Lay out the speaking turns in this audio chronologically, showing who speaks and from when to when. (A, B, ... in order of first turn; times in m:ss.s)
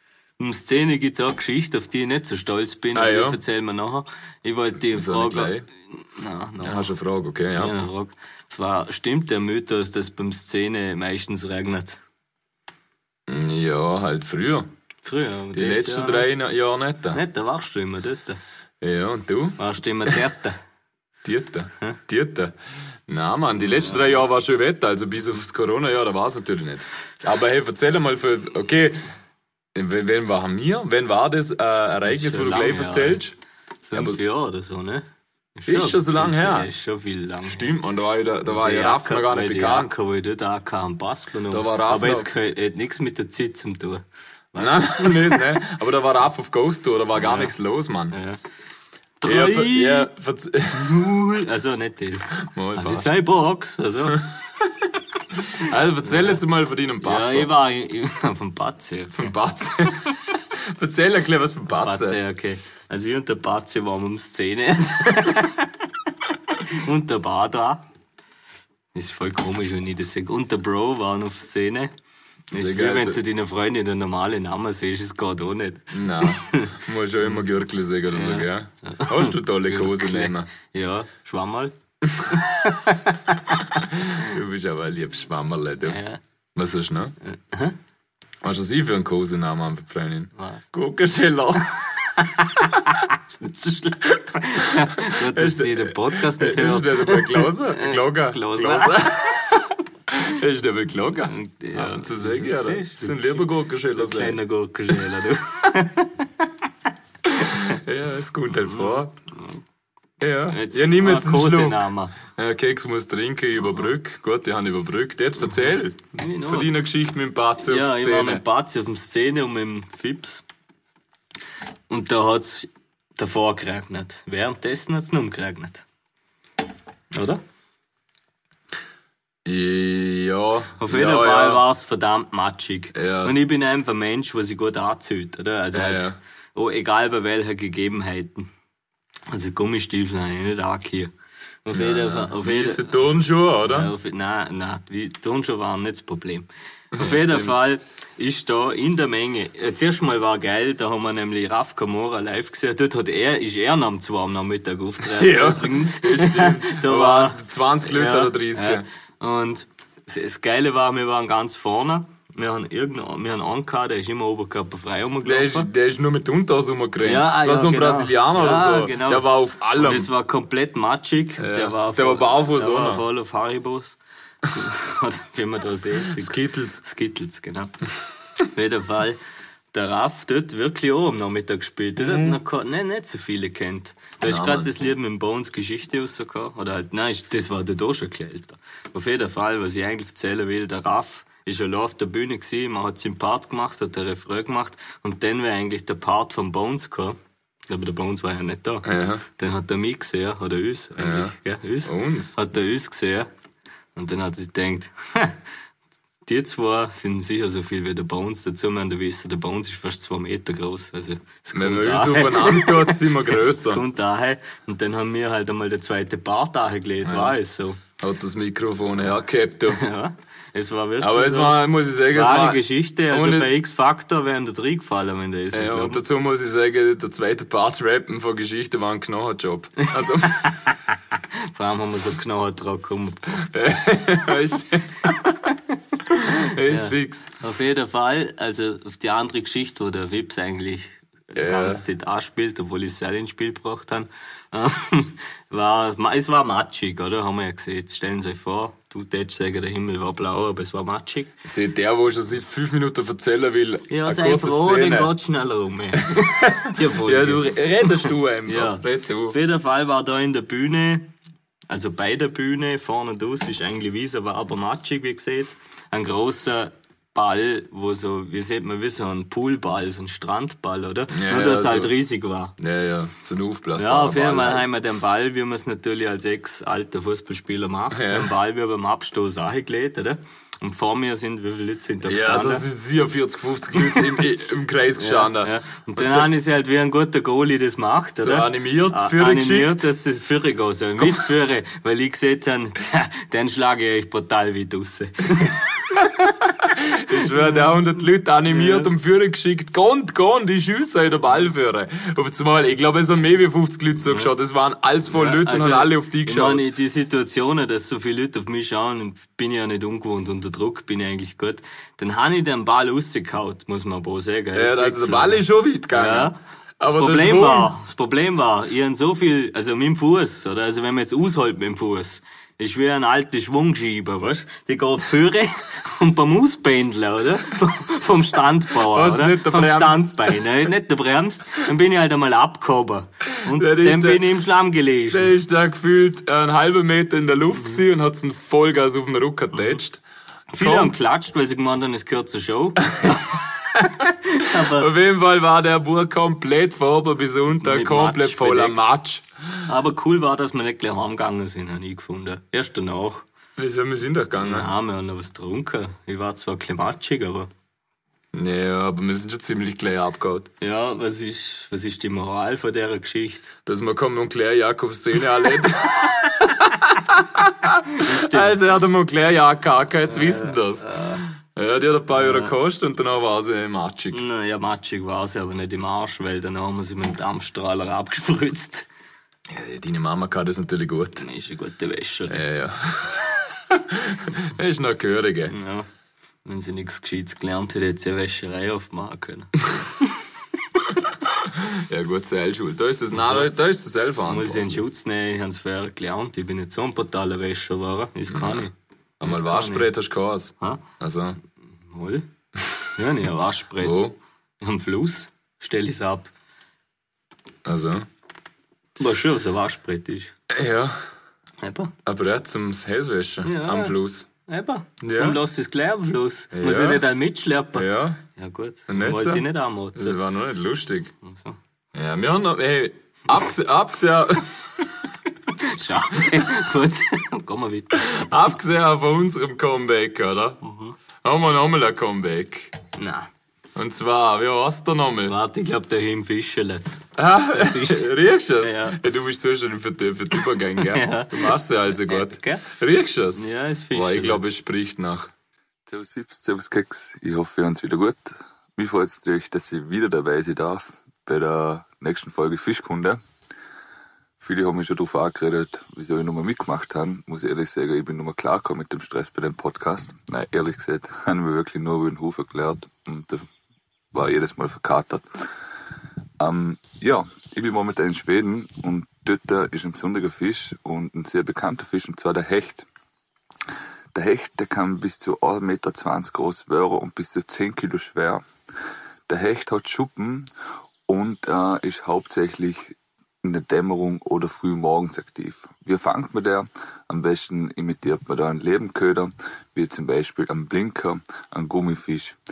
0:00.4-0:06.9 A
0:02.9-0:03.4 B
0:04.9-0:05.7 B
0:06.6-0:07.7 B
0:07.5-0:12.0 A
0:13.3-0:14.7 B
0:15.0-0:16.3 A
0:15.5-0:17.2 B
0:17.1-0:18.4 A
0:18.8-0:20.2 B
0:19.6-0:20.6 A
0:21.2-0:22.5 B
0:23.1-0:29.1 B
0:23.7-0:24.0 A
0:29.7-0:33.3 B
0:32.0-0:33.2 A
0:33.9-0:37.7 A
0:33.9-0:34.2 B
0:35.7-0:36.7 B
0:37.4-0:39.9 B
0:38.4-0:45.5 A
0:41.5-0:42.3 B
0:44.6-0:48.2 B
0:47.2-0:47.5 A
0:48.1-0:48.4 A
0:49.2-0:50.1 A
0:49.2-0:51.2 B
0:50.7-0:54.2 A
0:52.4-0:53.2 B
0:55.4-0:57.5 B
0:56.1-0:56.4 A
0:57.0-0:59.3 A
0:59.2-1:02.2 B
1:01.8-1:05.9 A
1:06.6-1:07.8 A
1:08.9-1:11.9 A
1:12.5-1:17.4 A
1:12.5-1:13.2 B
1:15.9-1:20.5 B
1:18.1-1:24.2 A
1:23.7-1:26.0 B
1:25.8-1:26.2 A
1:26.6-1:27.1 B
1:27.2-1:27.8 A
1:28.4-1:32.9 B
1:30.4-1:30.7 A
1:32.9-1:39.2 A
1:34.6-1:44.4 B
1:41.3-1:46.5 A
1:47.2-1:49.1 B
1:48.5-1:49.6 A
1:50.2-1:58.4 B
1:50.5-1:52.2 A
1:56.1-1:56.7 A
1:57.6-2:00.4 A
2:01.9-2:05.8 A
2:07.1-2:07.4 A
2:09.4-2:11.6 B
2:10.8-2:18.5 A
2:12.9-2:13.3 B
2:15.7-2:16.2 B
2:19.3-2:21.1 A
2:21.6-2:23.0 A
2:21.7-2:23.9 B
2:23.6-2:45.7 A
2:26.9-2:27.5 B
2:35.0-2:38.8 B
2:45.2-2:50.1 B
2:47.0-2:57.7 A
2:51.4-2:53.0 B
2:56.1-2:56.8 B
2:58.4-2:59.2 A
2:59.7-3:23.3 A
3:02.0-3:02.4 B
3:04.2-3:04.7 B
3:18.8-3:19.2 B
3:21.0-3:22.4 B
3:23.9-3:25.4 A
3:26.2-3:37.8 A
3:31.5-3:33.8 B
3:37.0-3:37.4 B
3:38.0-3:39.8 B
3:39.7-3:46.0 A
3:41.0-3:43.5 B
3:45.5-3:50.5 B
3:50.2-3:50.9 A
3:51.5-3:53.5 A
3:53.4-3:55.4 B
3:56.1-3:57.3 B
3:56.3-4:11.4 A
4:01.3-4:01.8 B
4:11.4-4:15.1 B
4:13.9-4:21.1 A
4:16.1-4:19.4 B
4:21.7-4:32.5 A
4:31.1-4:31.9 B
4:32.6-4:34.6 B
4:33.8-4:42.6 A
4:37.9-4:38.3 B
4:42.0-4:46.3 B
4:43.8-4:44.2 A
4:45.0-4:56.0 A
4:48.2-4:49.8 B
4:56.0-5:06.6 B
4:57.3-4:57.6 A
4:58.5-4:58.9 A
5:05.1-5:35.3 A
5:14.5-5:17.7 B
5:28.7-5:30.5 B
5:33.4-5:34.2 B
5:35.1-5:40.0 B
5:40.5-5:44.9 A
5:40.5-5:40.9 B
5:44.5-5:49.2 B
5:47.6-5:48.8 A
5:49.6-5:53.2 A
5:53.6-5:54.7 B
5:54.4-5:57.5 A
5:58.3-6:00.5 B
6:00.6-6:03.5 A
6:03.6-6:10.9 B
6:07.9-6:08.6 A
6:10.1-6:11.2 A
6:11.5-6:14.2 B
6:12.1-6:12.5 A
6:14.1-6:18.9 A
6:19.5-6:21.2 B
6:21.2-6:22.4 A
6:22.3-6:25.5 B
6:25.5-6:25.9 A
6:26.4-6:30.0 A
6:31.0-6:34.8 B
6:33.2-6:33.4 A
6:34.3-6:39.9 A
6:38.3-6:38.7 B
6:39.2-6:41.4 B
6:41.8-6:42.3 A
6:43.0-6:44.1 A
6:43.8-6:44.1 B
6:44.6-6:46.3 A
6:47.6-6:48.1 B
6:49.0-6:50.3 A
6:50.5-6:51.0 B
6:51.6-6:51.9 A
6:52.0-6:54.3 B
6:53.4-7:00.2 A
6:55.0-6:55.4 B
6:56.5-6:57.0 B
6:57.7-6:58.2 B
6:58.9-7:01.1 B
7:01.2-7:01.6 A
7:01.9-7:05.1 B
7:05.5-7:08.2 A
7:08.0-7:10.6 B
7:10.6-7:11.0 A
7:11.2-7:12.8 B
7:13.0-7:13.3 A
7:13.7-7:15.4 B
7:15.3-7:19.0 A
7:17.2-7:25.3 B
7:20.8-7:22.7 A
7:23.3-7:24.4 A
7:25.9-7:33.2 C
7:34.4-7:43.5 C
7:44.1-7:45.5 C
7:46.4-7:52.8 C
7:54.1-7:58.4 C
7:59.3-8:00.5 C
8:01.1-8:12.4 C